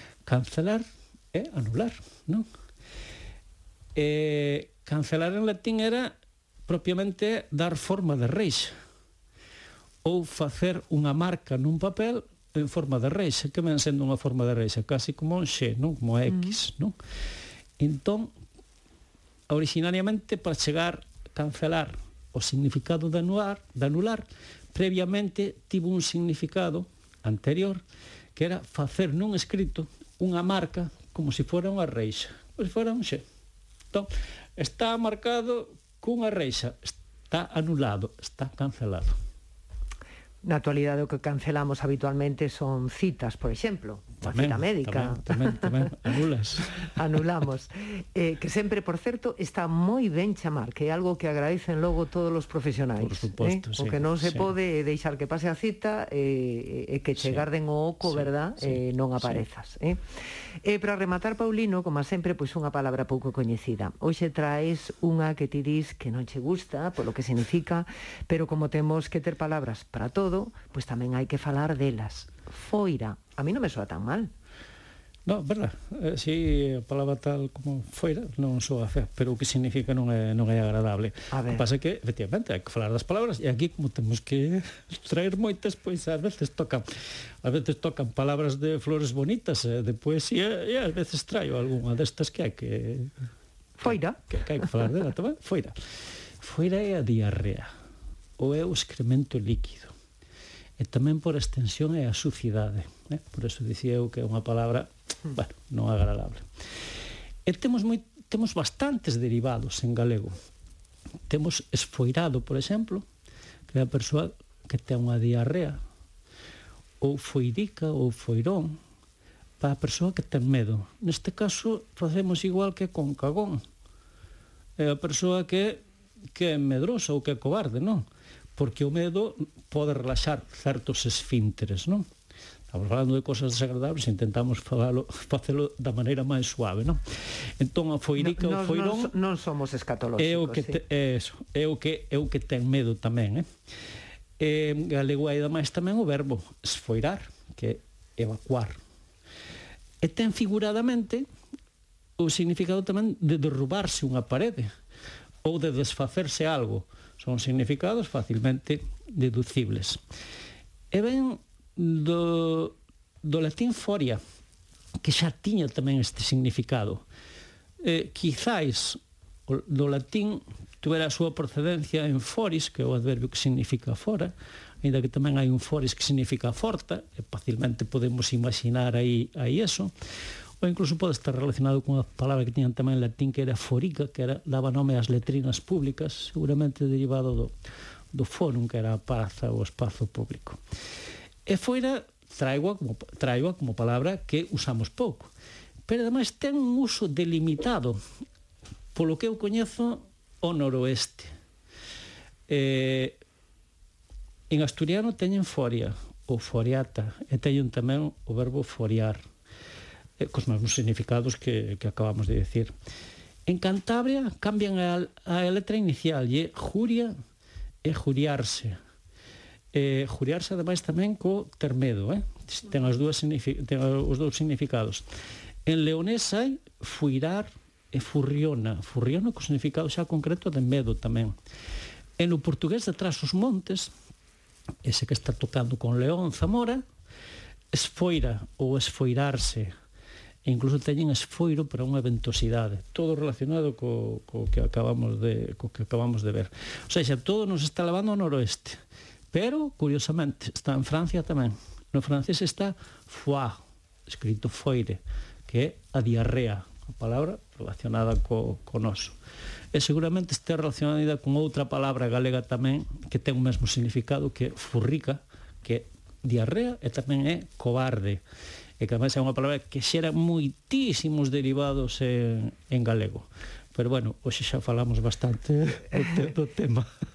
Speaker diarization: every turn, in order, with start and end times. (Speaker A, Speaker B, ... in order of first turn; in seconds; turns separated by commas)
Speaker A: 0.3-2.5, Speaker A: 4.0-6.1, Speaker A: 6.7-8.7, Speaker A: 10.0-16.9, Speaker A: 17.8-18.3, Speaker A: 19.5-27.8, Speaker A: 28.4-33.2, Speaker A: 33.9-39.2, Speaker B: 40.4-46.0, Speaker A: 44.2-46.9, Speaker B: 46.9-60.0, Speaker A: 53.0-54.5, Speaker A: 57.2-57.4, Speaker A: 58.1-59.4, Speaker B: 60.6-74.3, Speaker A: 75.3-86.9, Speaker B: 81.3-81.7, Speaker A: 87.4-93.1, Speaker B: 93.8-94.3, Speaker A: 93.8-95.7, Speaker A: 96.4-97.7, Speaker A: 98.4-99.9, Speaker A: 100.8-106.5, Speaker A: 107.5-110.3, Speaker A: 111.3-113.0, Speaker A: 113.7-115.8, Speaker A: 117.0-118.8, Speaker A: 119.6-123.6, Speaker A: 124.8-125.8, Speaker A: 126.3-128.1, Speaker A: 128.6-132.0, Speaker A: 132.7-137.0, Speaker A: 137.6-139.1, Speaker B: 138.2-140.8, Speaker A: 140.2-143.4, Speaker A: 144.4-148.8, Speaker A: 150.0-151.2, Speaker A: 152.2-154.7, Speaker A: 155.4-160.0, Speaker A: 160.9-164.2, Speaker A: 165.0-167.0, Speaker A: 167.8-179.9, Speaker A: 180.6-187.5, Speaker A: 188.1-190.6, Speaker A: 191.5-195.3, Speaker A: 195.9-198.0, Speaker A: 198.9-201.3, Speaker A: 202.5-203.2, Speaker A: 204.5-209.2, Speaker A: 210.2-212.7, Speaker A: 213.5-217.1, Speaker A: 217.8-218.8, Speaker A: 219.7-225.1, Speaker A: 225.7-231.3, Speaker A: 232.2-233.9, Speaker A: 234.8-236.8, Speaker A: 237.7-239.7, Speaker A: 240.4-248.8, Speaker A: 249.3-253.6, Speaker A: 254.1-259.2, Speaker A: 259.7-268.2, Speaker A: 268.8-276.9